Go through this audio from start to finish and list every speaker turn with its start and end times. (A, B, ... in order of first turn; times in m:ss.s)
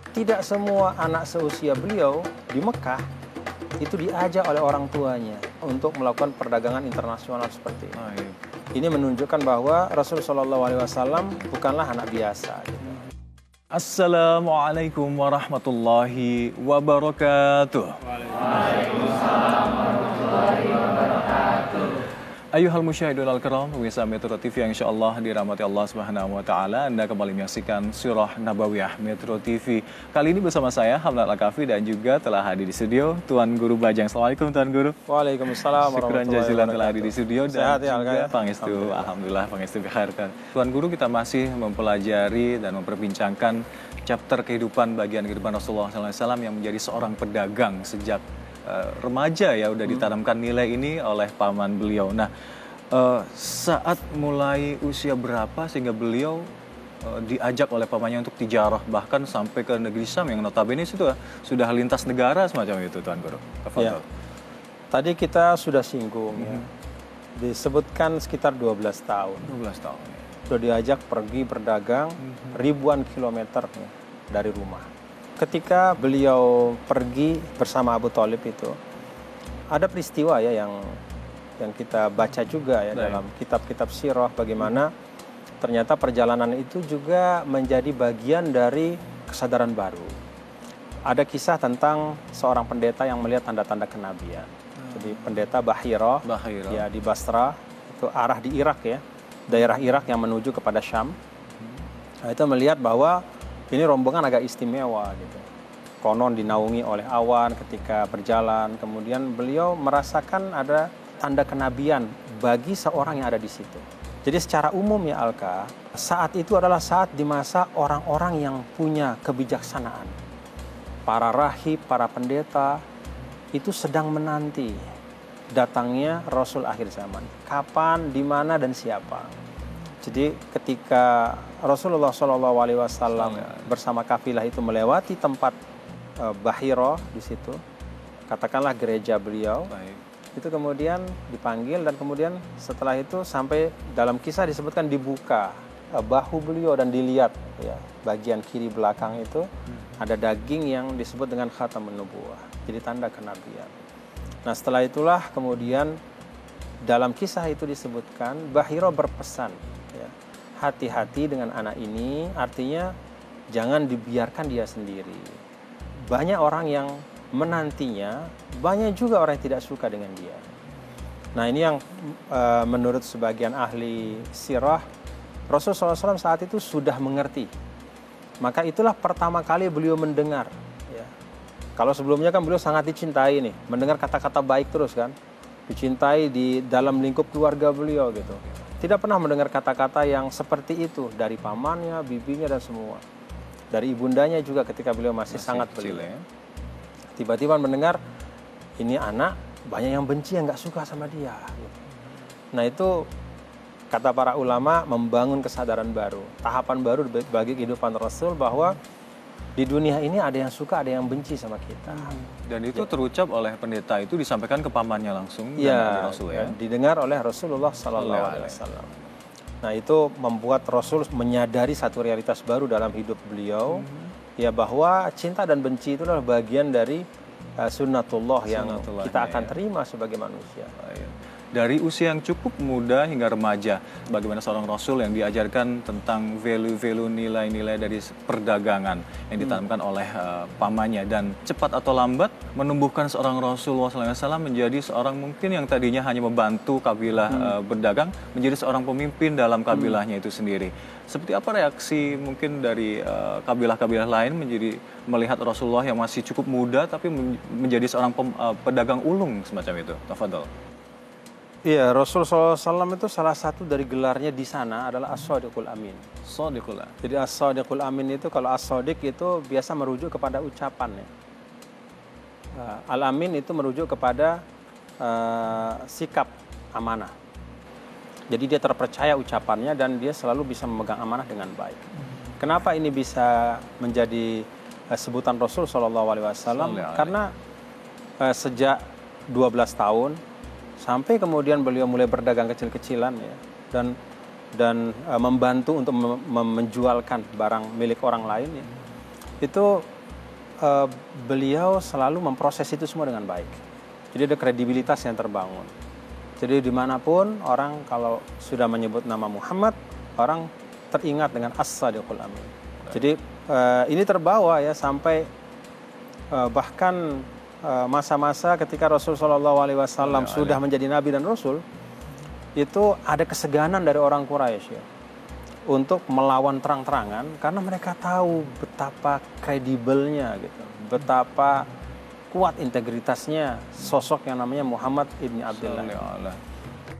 0:00.1-0:03.0 A
0:03.8-0:08.0 A
0:08.0-0:08.4 B
0:08.7-0:13.0 A
0:13.7-0:18.8 B
0:22.5-0:35.0 B
0:35.1-0:39.1 A
0:35.8-0:52.3 B
0:52.9-0:56.4 B
0:57.0-1:04.0 B
1:04.9-1:06.7 A
1:06.4-1:06.6 B
1:07.4-1:09.5 A
1:09.4-1:10.3 B
1:10.5-1:14.8 A
1:15.4-1:18.8 A
1:19.7-1:21.0 A
1:21.6-1:24.9 A
1:22.9-1:23.2 B
1:25.6-1:30.1 A
1:31.1-1:41.2 A
1:36.2-1:36.8 B
1:42.2-1:45.4 A
1:46.0-2:00.1 A
2:01.1-2:02.8 A
2:03.5-2:04.8 A
2:05.5-2:09.3 A
2:10.0-2:15.6 A
2:13.1-2:13.7 B
2:16.2-2:17.6 A
2:18.3-2:19.7 A
2:19.7-2:20.0 B
2:20.4-2:29.5 A
2:30.0-2:33.7 A
2:34.4-2:36.0 A
2:36.8-2:42.9 A
2:43.5-2:45.4 A
2:46.1-2:50.4 A
2:51.3-2:54.8 A
2:55.5-2:57.5 A
2:58.4-3:01.1 A
3:01.8-3:05.1 A
3:05.7-3:13.0 A
3:13.7-3:16.1 A
3:15.3-3:16.2 B
3:17.2-3:18.0 A
3:18.8-3:21.7 A
3:22.5-3:23.0 A
3:23.9-3:28.8 A
3:29.6-3:32.1 A
3:31.9-3:36.5 B
3:35.6-3:38.9 A
3:37.9-3:38.6 B
3:39.6-3:43.8 A
3:43.7-3:44.1 B
3:44.4-3:47.0 A
3:47.6-3:50.7 A
3:48.4-3:49.6 B
3:50.8-4:20.5 B
4:21.6-4:26.0 A
4:26.2-4:26.9 B
4:27.0-4:31.1 A
4:32.5-4:34.4 A
4:35.0-4:37.1 A
4:38.3-4:41.9 A
4:42.4-4:47.3 A
4:46.5-4:47.2 B
4:48.2-4:48.8 A
4:49.3-4:50.2 A
4:50.8-4:53.9 A
4:54.6-4:58.7 A
4:59.4-4:59.8 A
5:00.6-5:03.6 A
5:04.1-5:05.7 A
5:06.4-5:15.3 A
5:16.3-5:21.6 A
5:20.0-5:20.6 B
5:22.6-5:24.8 A
5:25.7-5:31.7 A
5:32.3-5:35.9 A
5:35.5-5:36.4 B